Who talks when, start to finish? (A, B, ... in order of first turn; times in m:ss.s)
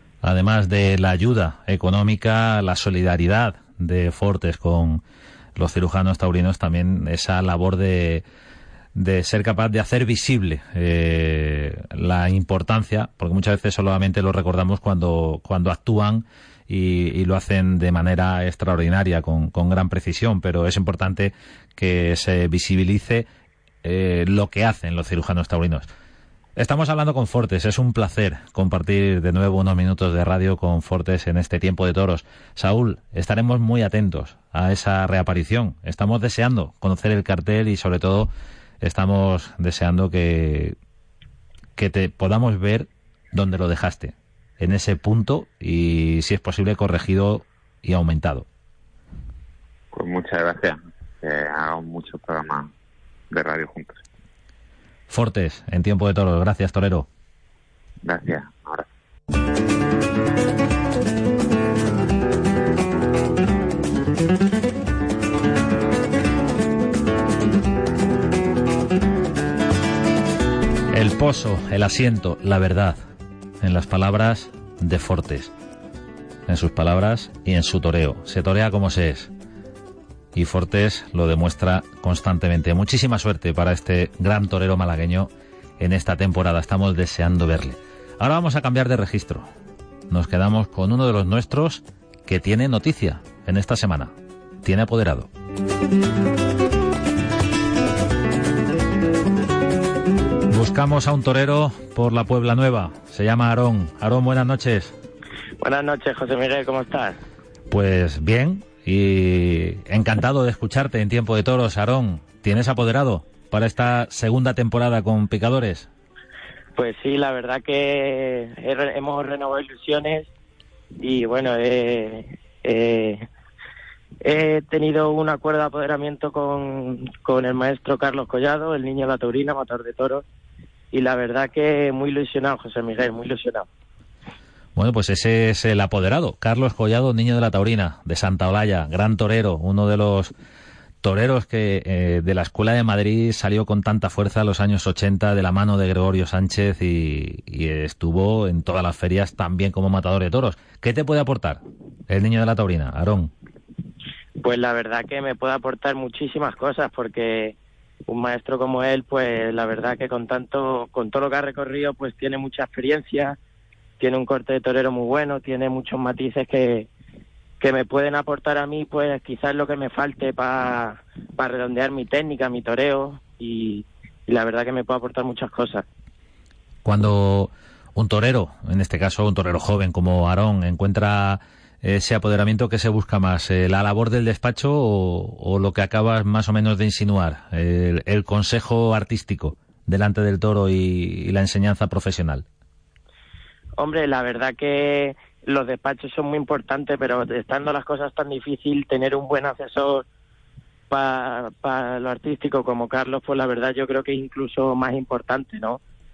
0:00.2-0:05.0 A
0:05.6-0:08.2 A
0:09.0-0:23.3 A
0:23.8-0:25.9 A
0:26.6-0:38.3 A
0:38.8-0:40.8 A
0:41.8-0:48.5 A
0:49.9-0:52.7 B
0:53.3-0:54.0 B
0:55.1-0:57.1 A
0:58.0-0:58.9 B
1:10.9-1:13.0 A
1:13.6-1:15.5 A
1:16.5-1:19.3 A
1:20.3-1:29.5 A
1:30.1-1:35.3 A
1:40.5-1:45.0 A
1:45.6-1:47.2 C
1:47.7-1:55.9 A
1:56.8-2:00.3 C
2:01.0-2:03.2 C
2:04.2-2:10.2 C
2:10.9-2:13.7 C
2:14.8-2:20.3 A
2:21.0-2:33.3 A
2:34.4-2:37.6 C
2:38.1-2:43.4 C
2:44.0-2:46.9 C
2:47.6-2:55.8 C
2:56.8-3:12.5 A
3:13.8-3:20.0 C
3:20.9-3:25.8 C